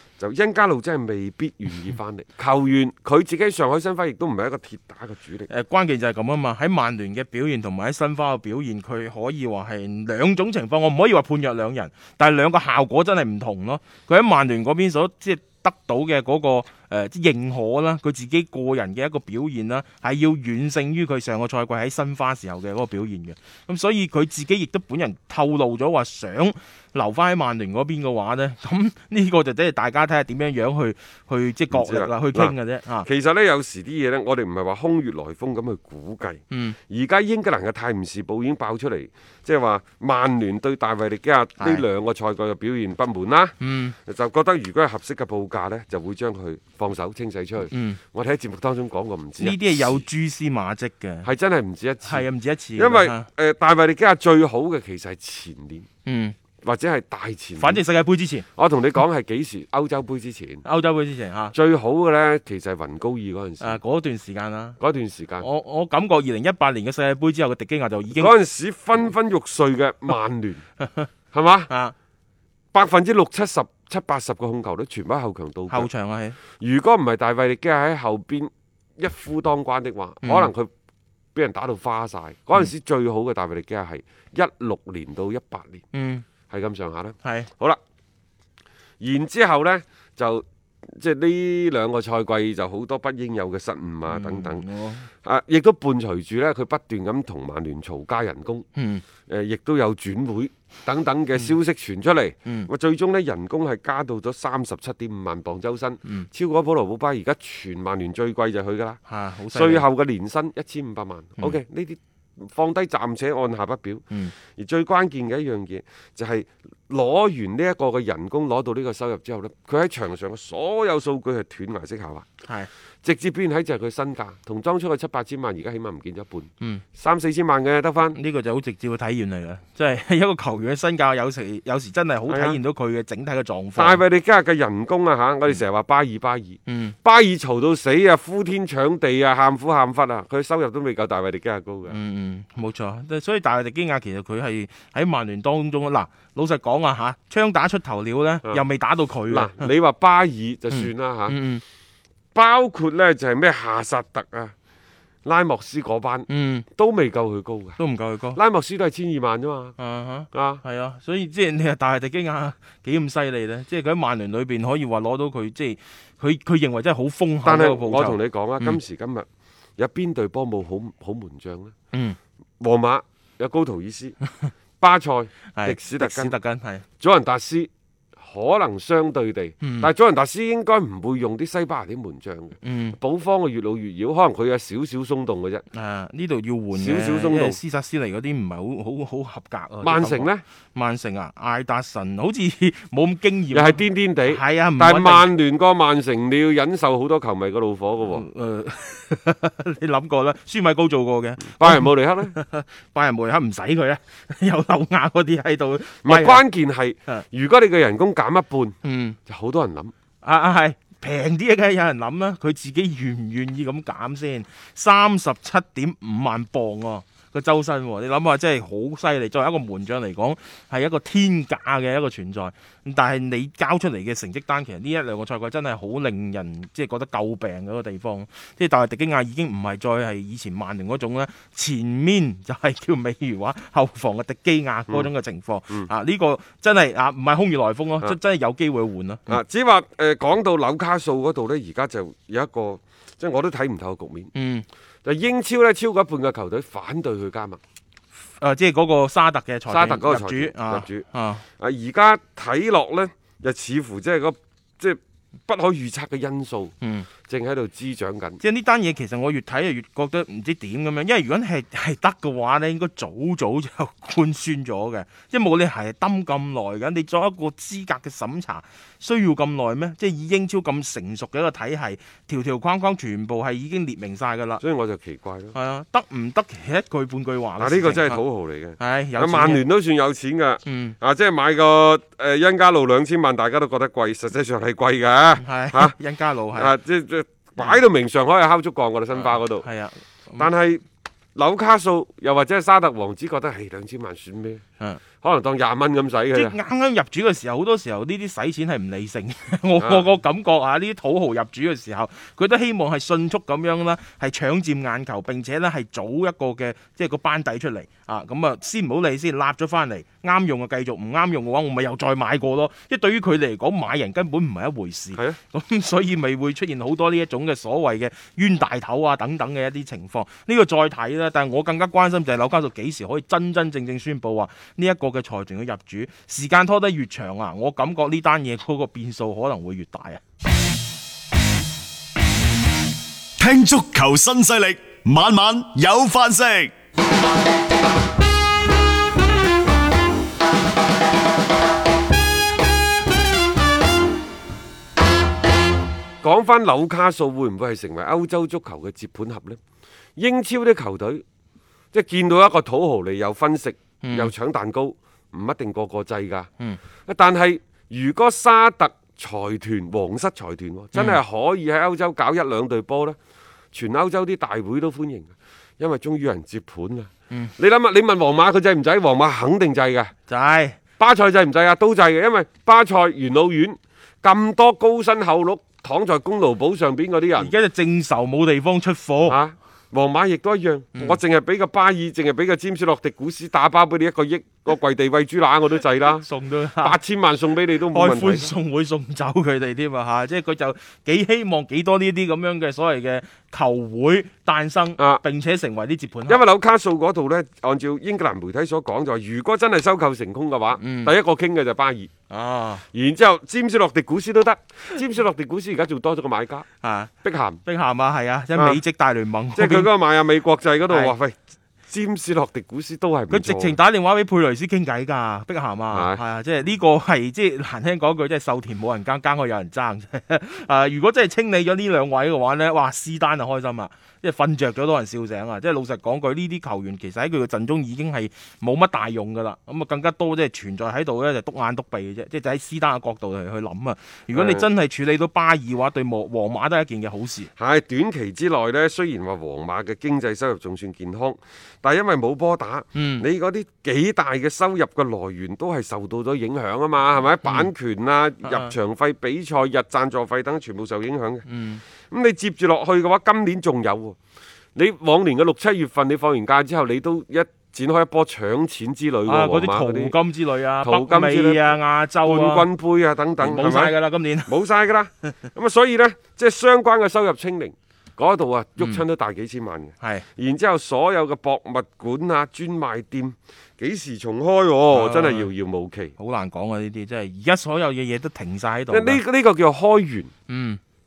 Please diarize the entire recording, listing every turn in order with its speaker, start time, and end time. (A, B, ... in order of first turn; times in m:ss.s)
0:00.2-0:05.5 A
0:05.5-0:33.1 B
0:31.7-0:43.5 A
0:36.5-0:36.8 B
0:41.6-0:41.8 B
0:43.6-0:44.0 B
0:44.0-0:50.0 A
0:47.7-0:48.0 B
0:49.4-0:51.3 B
0:51.2-0:55.8 A
0:52.0-0:53.3 B
0:56.0-0:56.4 B
0:56.6-0:57.8 A
0:57.6-0:58.4 B
0:58.6-1:00.6 A
1:00.6-1:01.5 B
1:01.5-1:03.8 A
1:03.6-1:04.8 B
1:04.8-1:05.4 A
1:05.4-1:08.3 B
1:08.1-1:10.6 A
1:10.8-1:11.1 B
1:11.3-1:11.7 A
1:11.7-1:11.9 B
1:12.7-1:15.9 A
1:15.7-1:16.4 B
1:16.6-1:20.7 A
1:20.2-1:20.5 B
1:21.3-1:25.8 A
1:25.9-1:26.2 B
1:26.5-1:27.8 A
1:27.2-1:27.5 B
1:29.0-1:34.6 A
1:34.1-1:35.1 B
1:35.2-1:38.6 A
1:38.7-1:39.0 B
1:39.3-1:49.0 A
1:42.4-1:42.7 B
1:49.1-1:49.8 B
1:49.5-2:02.3 A
2:02.4-2:02.7 B
2:03.0-2:08.2 A
2:08.1-2:14.0 B
2:12.3-2:12.6 A
2:13.7-2:22.0 A
2:16.7-2:17.0 B
2:21.9-2:29.7 B
2:29.3-2:31.4 A
2:30.7-2:31.6 B
2:32.3-2:34.5 A
2:35.2-2:37.8 A
2:36.3-2:36.7 B
2:37.8-2:38.4 B
2:38.3-2:39.8 A
2:39.8-2:48.8 B
2:40.3-2:40.6 A
2:47.4-2:49.2 A
2:49.8-2:51.7 A
2:51.9-2:52.2 B
2:52.6-2:54.2 A
2:54.8-2:56.4 A
2:55.5-2:56.8 B
2:57.0-3:05.6 A
2:59.6-2:59.9 B
3:02.6-3:03.0 B
3:05.7-3:15.3 B
3:06.7-3:07.6 A
3:09.8-3:10.4 A
3:13.5-3:18.2 A
3:18.1-3:26.4 B
3:21.5-3:22.3 A
3:26.0-3:29.9 A
3:28.8-3:29.2 B
3:30.2-3:59.4 B
3:59.3-4:04.3 A
4:04.3-4:04.6 B
4:05.0-4:07.6 A
4:08.4-4:11.4 B
4:09.7-4:11.0 A
4:11.6-4:16.7 A
4:16.8-4:17.1 B
4:17.3-4:18.4 A
4:18.4-4:34.6 B
4:34.6-4:35.5 A
4:35.5-4:38.2 B
4:37.6-4:45.9 A
4:38.8-4:39.6 B
4:40.6-4:41.0 B
4:45.4-4:46.7 B
4:46.5-4:49.6 A
4:49.1-4:50.5 B
4:50.4-4:50.8 A
4:51.3-4:54.6 A
4:55.2-4:56.6 A
4:56.3-5:30.2 B
4:59.8-5:00.0 A
5:33.4-5:36.7 C
5:46.2-5:49.6 A
5:50.2-5:51.2 A
5:51.9-5:56.5 A
5:54.0-5:54.3 B
5:57.1-6:03.2 A
6:00.9-6:01.2 B
6:03.7-6:10.1 A
6:10.3-6:10.8 B
6:11.0-6:17.5 A
6:17.3-6:19.4 B
6:19.2-6:26.2 A
6:26.2-6:27.0 B
6:26.8-6:28.5 A
6:27.9-6:36.4 B
6:36.3-6:42.1 A
6:40.8-6:41.1 B
6:42.3-6:42.8 B
6:42.9-6:46.6 A
6:46.8-6:47.1 B
6:47.2-6:47.6 A
6:47.6-6:49.9 B
6:48.5-6:48.8 A
6:49.5-6:51.4 A
6:50.9-6:51.1 B
6:51.9-6:53.8 A
6:53.3-7:17.5 B
6:55.9-6:56.2 A
7:14.3-7:14.7 A
7:17.6-7:31.4 A
7:22.9-7:23.2 B
7:27.4-7:27.7 B
7:28.4-7:28.7 B
7:31.4-7:31.8 B
7:32.1-7:34.2 A
7:34.7-7:40.2 A
7:39.2-7:42.7 B
7:40.8-7:56.1 A
7:43.4-7:44.5 B
7:50.0-7:50.3 B
7:54.9-7:55.5 B
7:56.2-7:59.2 B
7:58.9-8:00.3 A
8:00.5-8:00.8 B